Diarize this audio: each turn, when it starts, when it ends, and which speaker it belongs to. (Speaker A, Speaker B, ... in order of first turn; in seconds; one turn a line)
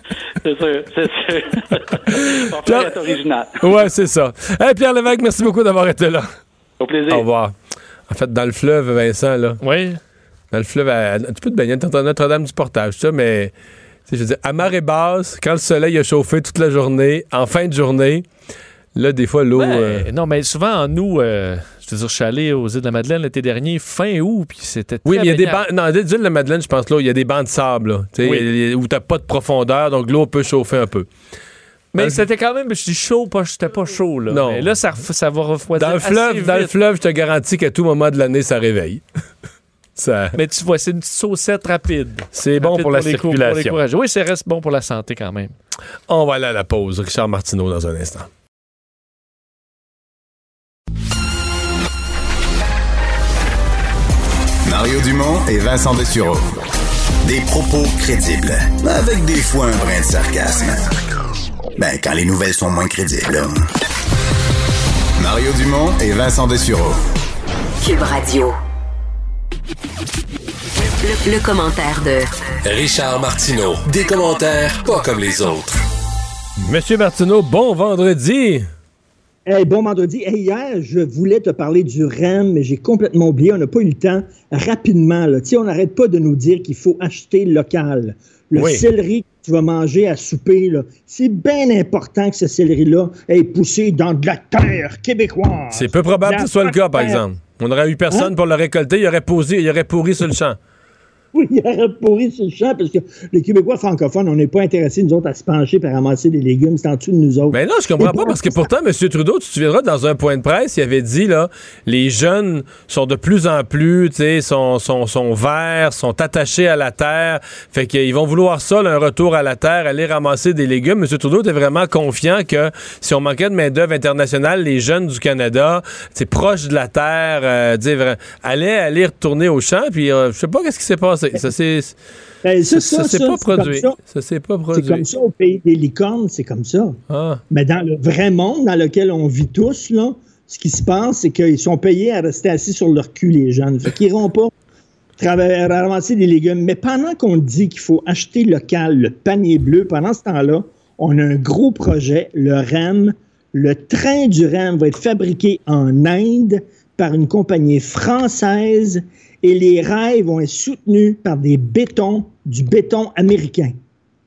Speaker A: 0.4-3.9
Speaker B: 2.1-3.0
Speaker B: 3.6-6.3
Speaker A: 6.8-7.3
Speaker B: 7.1-7.5
Speaker B: 8.1-9.6
Speaker C: 9.6-10.0
Speaker B: 10.5-13.5
Speaker B: 14.1-18.3
Speaker B: 18.9-20.1
Speaker C: 19.6-25.6
Speaker B: 25.1-31.1
Speaker C: 28.2-28.5
Speaker C: 31.9-36.7
Speaker B: 34.3-34.7
Speaker B: 35.8-39.0
Speaker B: 40.0-40.4
Speaker C: 40.4-45.6
Speaker B: 42.3-43.8
Speaker B: 46.1-48.3
Speaker D: 54.6-56.5
Speaker D: 57.2-60.9
Speaker D: 61.8-63.7
Speaker D: 65.2-67.0
Speaker E: 67.8-68.6
Speaker E: 71.0-72.3
Speaker F: 72.7-75.8
Speaker B: 76.6-78.7
Speaker G: 79.5-97.2
Speaker B: 88.6-88.8
Speaker B: 95.7-100.6
Speaker G: 101.3-108.7
Speaker B: 107.5-132.0
Speaker G: 132.4-134.0
Speaker B: 132.7-135.1
Speaker G: 134.7-137.0
Speaker B: 137.1-137.4
Speaker G: 137.5-144.5
Speaker G: 145.2-163.8